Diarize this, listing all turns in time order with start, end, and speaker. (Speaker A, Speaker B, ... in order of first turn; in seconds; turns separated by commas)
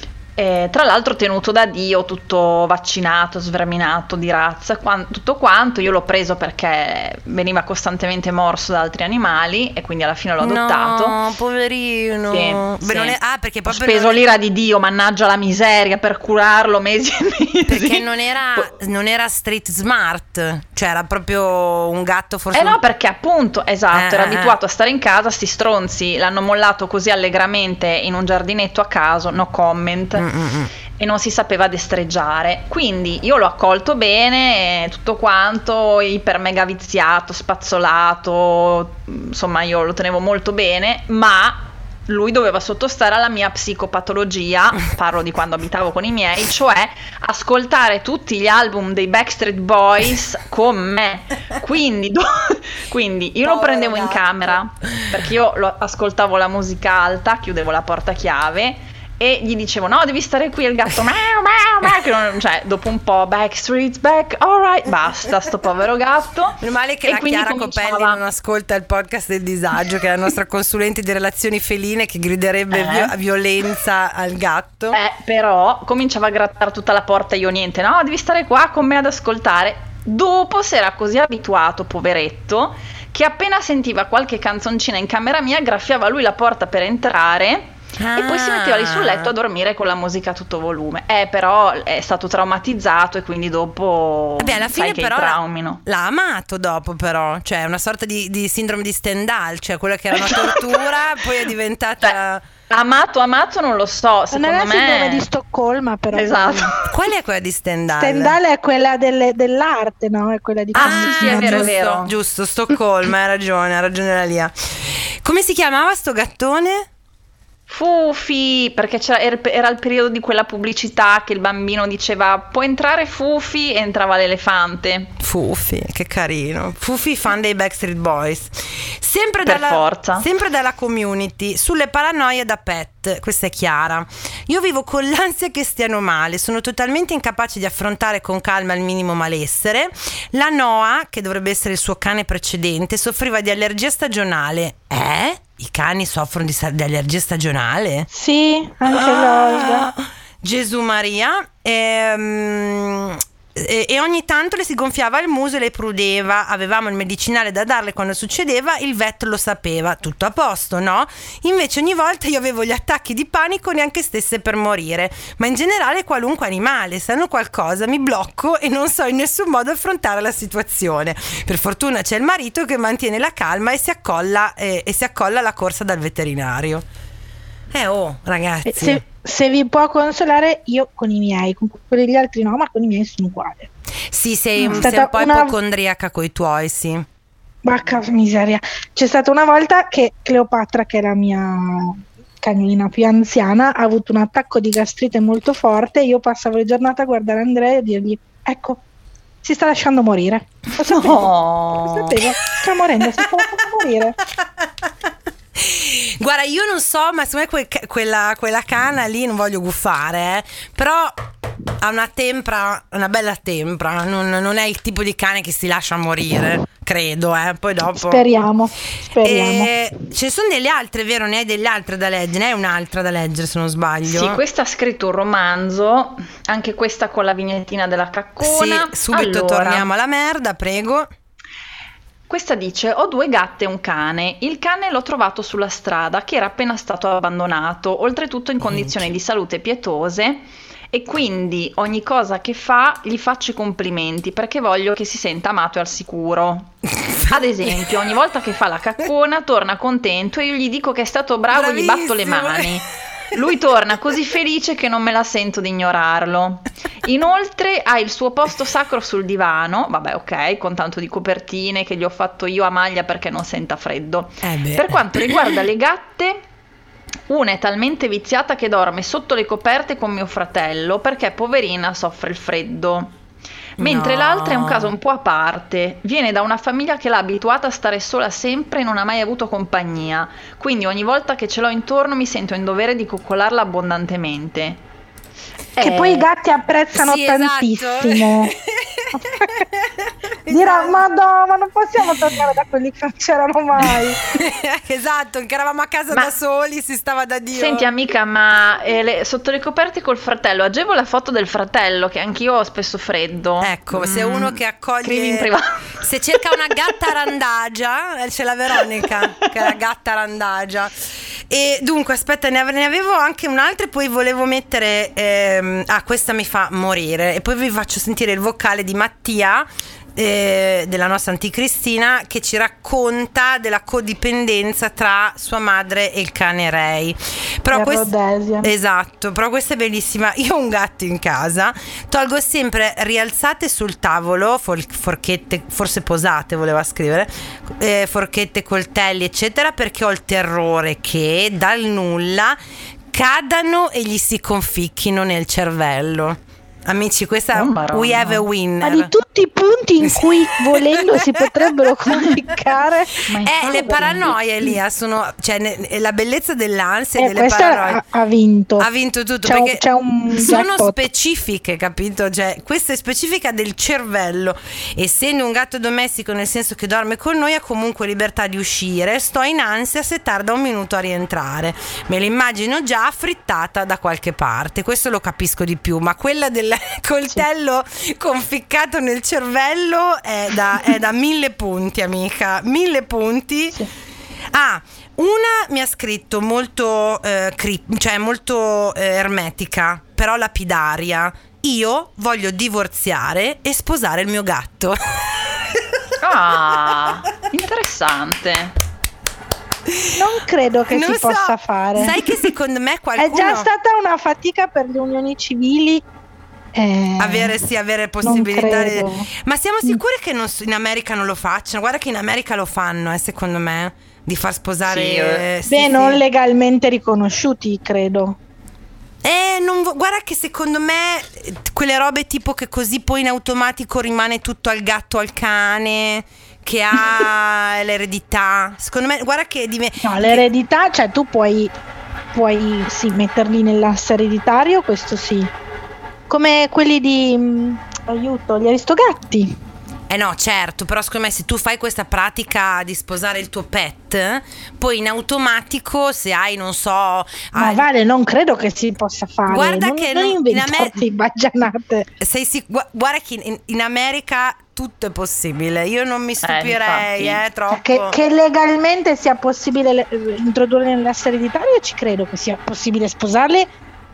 Speaker A: 0.4-11.2, Speaker B: 10.4-14.2, Speaker A: 12.3-18.7, Speaker B: 17.7-22.8, Speaker A: 22.5-30.3, Speaker B: 23.9-24.6, Speaker B: 30.1-30.7, Speaker A: 31.0-68.2, Speaker B: 53.4-55.1, Speaker B: 66.6-75.0, Speaker A: 72.7-73.1, Speaker A: 74.9-95.8, Speaker B: 88.0-89.3, Speaker B: 94.4-102.4, Speaker A: 100.2-100.9, Speaker A: 102.7-105.3, Speaker C: 104.3-106.8, Speaker A: 106.1-106.8, Speaker B: 106.9-108.4, Speaker C: 108.0-111.7, Speaker A: 110.7-112.1, Speaker B: 110.8-116.9, Speaker A: 117.7-125.1, Speaker B: 125.2-148.1, Speaker A: 129.4-130.2, Speaker C: 148.1-149.9, Speaker B: 148.9-176.8, Speaker B: 177.7-179.0, Speaker C: 178.7-183.7, Speaker B: 184.1-187.1, Speaker A: 184.7-184.9, Speaker C: 184.7-185.5, Speaker C: 187.6-198.8, Speaker C: 199.4-201.2, Speaker A: 200.8-202.2, Speaker C: 201.9-204.2, Speaker B: 205.6-211.1, Speaker B: 211.8-218.2, Speaker C: 217.9-219.7, Speaker B: 219.2-224.4, Speaker A: 224.1-229.9, Speaker B: 228.4-231.1, Speaker A: 232.3-266.4, Speaker B: 238.6-239.1, Speaker B: 246.9-247.9, Speaker B: 251.5-252.8, Speaker B: 264.4-265.4, Speaker A: 267.3-273.1, Speaker B: 273.8-274.9, Speaker A: 273.8-284.8, Speaker A: 285.8-286.3, Speaker C: 285.8-288.5, Speaker B: 286.9-291.0, Speaker C: 289.1-289.7, Speaker C: 290.5-294.2, Speaker B: 294.2-297.9, Speaker A: 297.5-306.0, Speaker B: 303.6-305.5, Speaker B: 306.0-342.6, Speaker C: 327.7-328.7, Speaker B: 343.1-349.1, Speaker A: 347.5-348.5, Speaker C: 348.8-354.1, Speaker B: 350.1-351.4, Speaker A: 353.3-354.3, Speaker B: 353.4-358.0, Speaker C: 357.2-358.9, Speaker B: 358.8-383.8, Speaker C: 359.4-361.0, Speaker B: 384.5-395.4, Speaker A: 396.2-398.8, Speaker B: 399.9-400.2, Speaker C: 400.2-402.2, Speaker B: 400.9-403.7, Speaker C: 403.2-406.0, Speaker C: 406.7-407.6, Speaker B: 407.2-416.2, Speaker C: 408.2-409.3, Speaker A: 414.9-415.4, Speaker C: 415.7-418.4, Speaker B: 419.2-430.4, Speaker C: 430.0-431.7, Speaker C: 432.3-435.5, Speaker C: 436.3-439.5, Speaker B: 440.1-447.9, Speaker C: 447.6-452.1, Speaker B: 449.5-451.0, Speaker B: 452.2-458.2, Speaker A: 456.4-457.4, Speaker C: 457.7-463.7